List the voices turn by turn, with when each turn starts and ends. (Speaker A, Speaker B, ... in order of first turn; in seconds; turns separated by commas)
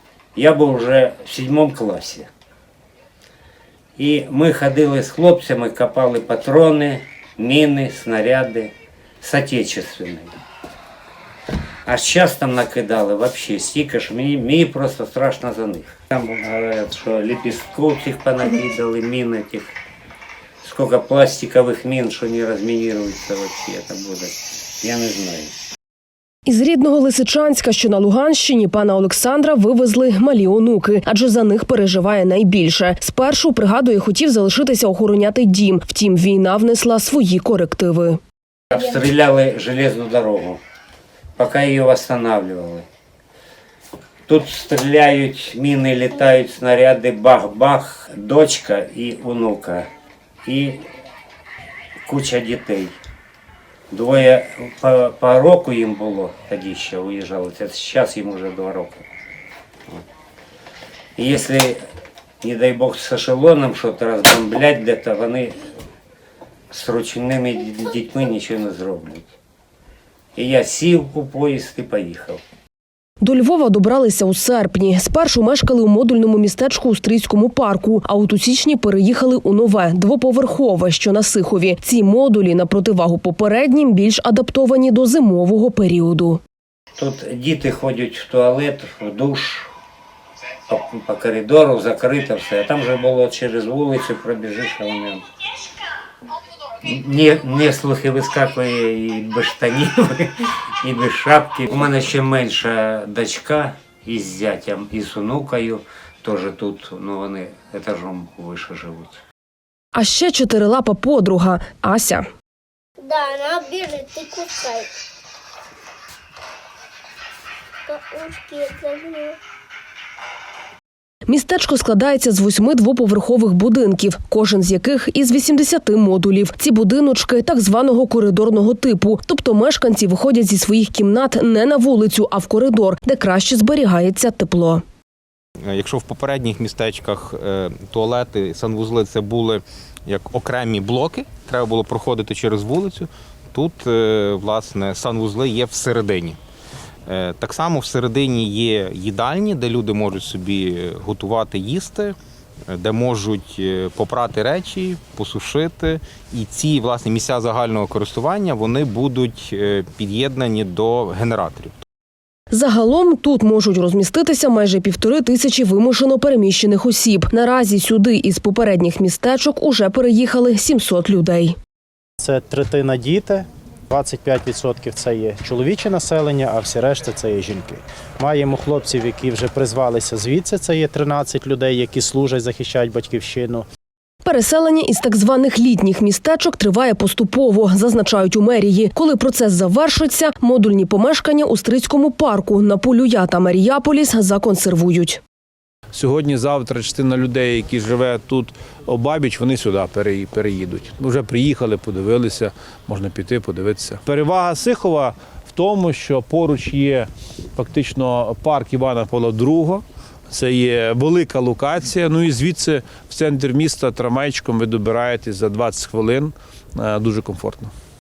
Speaker A: 0.3-2.3, Speaker A: 4.0-10.4, Speaker A: 11.9-19.8, Speaker A: 20.6-25.5, Speaker B: 26.5-38.2, Speaker A: 38.7-40.6, Speaker A: 41.4-42.9, Speaker A: 44.3-49.9, Speaker A: 50.5-50.8, Speaker A: 52.1-53.0, Speaker A: 53.9-59.1, Speaker A: 61.2-61.8, Speaker A: 62.4-65.7, Speaker A: 66.7-69.3, Speaker A: 70.4-72.4, Speaker B: 73.2-86.4, Speaker A: 87.0-89.7, Speaker A: 90.7-95.2, Speaker A: 96.8-109.2, Speaker B: 109.9-112.3, Speaker C: 113.0-114.9, Speaker C: 117.9-119.4, Speaker B: 121.3-134.8, Speaker D: 135.6-146.4, Speaker D: 147.1-152.2, Speaker D: 152.7-161.8, Speaker B: 162.5-171.6, Speaker E: 172.2-183.7, Speaker B: 184.2-195.2, Speaker F: 195.9-217.7